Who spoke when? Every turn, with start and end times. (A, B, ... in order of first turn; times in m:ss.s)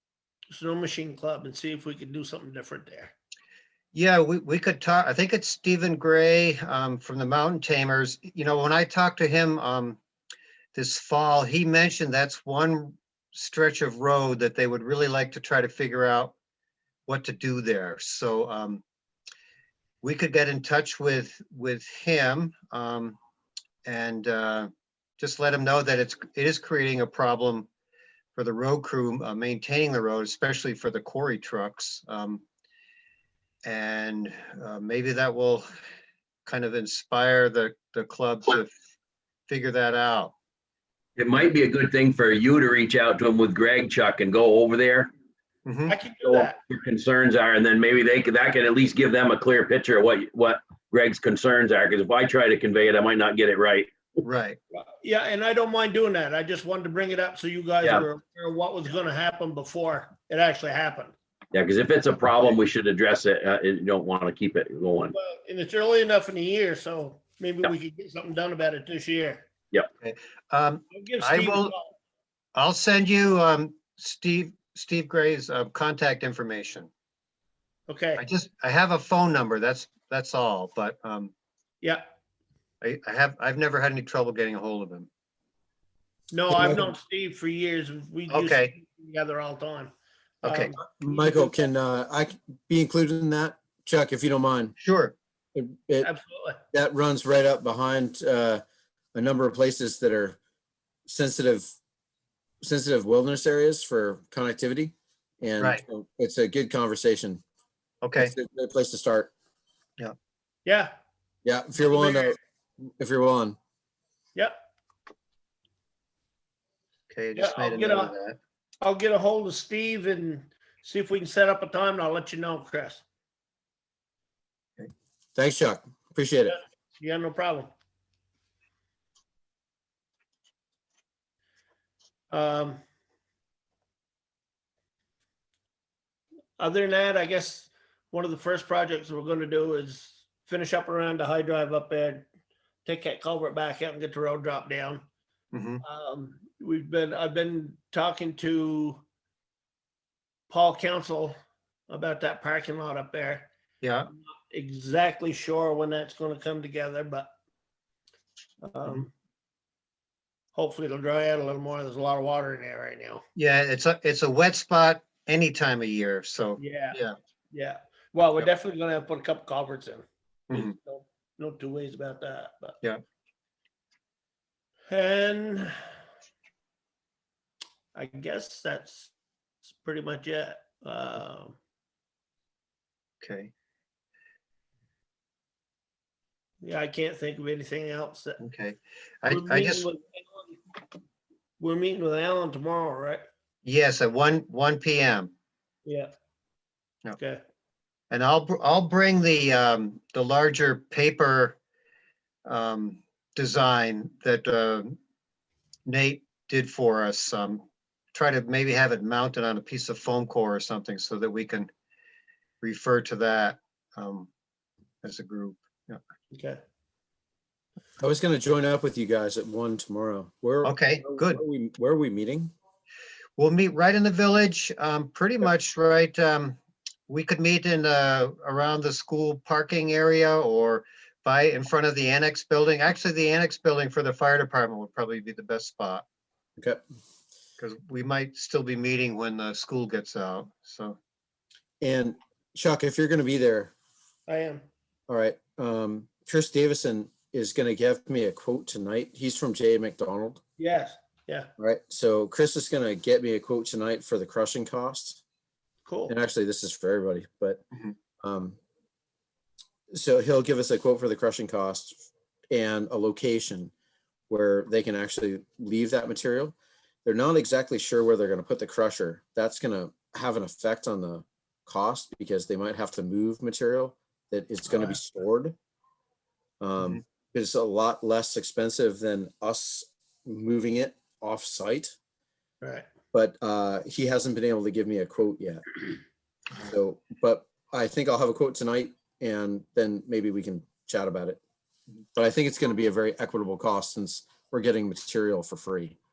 0:00.5-0:03.1 A
0:03.9-0:10.0 B
0:10.8-0:16.4 B
0:17.1-0:18.8 B
0:20.0-0:23.2 B
0:23.8-0:27.7 B
0:28.4-0:32.4 B
0:33.6-0:35.7 B
0:36.5-0:38.7 B
0:39.5-0:40.3 B
0:41.2-0:45.1 C
0:45.7-0:45.9 B
0:45.9-0:46.6 A
0:46.2-0:54.0 C
0:54.2-0:54.6 B
0:54.7-1:01.1 A
1:01.5-1:05.2 C
1:05.1-1:09.5 A
1:10.0-1:11.7 B
1:10.9-1:11.9 A
1:12.6-1:16.9 B
1:17.9-1:18.2 A
1:18.2-1:21.3 B
1:22.8-1:25.1 B
1:26.3-1:29.9 A
1:26.5-1:26.9 B
1:28.3-1:28.7 B
1:30.4-1:30.8 B
1:30.4-1:31.6 A
1:31.0-1:34.8 D
1:34.8-1:35.2 B
1:35.6-1:36.1 D
1:36.0-1:36.6 A
1:36.7-1:38.6 D
1:39.2-1:40.4 D
1:41.1-1:41.7 D
1:42.6-1:47.4 D
1:48.0-1:48.3 B
1:48.2-1:49.3 D
1:50.6-1:51.0 A
1:51.4-1:53.6 D
1:51.8-1:52.4 A
1:57.1-1:58.4 B
1:57.4-1:58.1 A
1:58.8-2:03.0 A
2:05.4-2:06.6 D
2:07.0-2:07.7 A
2:12.3-2:12.8 A
2:16.6-2:22.3 A
2:22.8-2:25.0 A
2:25.5-2:25.8 B
2:25.8-2:29.0 A
2:30.5-2:31.4 A
2:31.9-2:33.5 A
2:33.8-2:34.1 B
2:34.1-2:37.3 A
2:38.6-2:39.1 A
2:40.5-2:43.2 A
2:43.4-2:47.2 B
2:46.6-2:47.0 A
2:47.5-2:52.8 A
2:50.5-2:50.8 B
2:54.9-2:55.8 A
2:57.9-2:59.1 A
2:59.7-3:01.6 A
3:03.2-3:03.5 B
3:06.6-3:08.4 A
3:08.4-3:09.9 B
3:09.3-3:10.6 A
3:11.6-3:13.2 A
3:13.6-3:15.3 B
3:15.8-3:16.1 A
3:17.2-3:17.4 A
3:18.1-3:21.6 B
3:22.5-3:25.0 B
3:25.9-3:31.7 B
3:32.6-3:34.3 B
3:35.0-3:36.0 B
3:36.3-3:36.6 A
3:38.0-3:42.5 D
3:40.6-3:41.4 B
3:43.4-3:46.6 B
3:47.1-3:56.0 B
3:56.6-3:56.8 D
3:57.6-4:01.0 B
4:01.8-4:03.7 D
4:04.3-4:04.6 A
4:05.1-4:10.4 D
4:10.6-4:11.5 A
4:11.6-4:15.2 D
4:15.9-4:16.2 A
4:16.1-4:17.6 D
4:18.2-4:18.6 D
4:19.9-4:23.7 D
4:24.3-4:35.6 D
4:36.6-4:42.0 D
4:42.6-4:42.9 A
4:43.1-4:45.8 D
4:46.6-4:51.4 D
4:52.2-4:56.0 D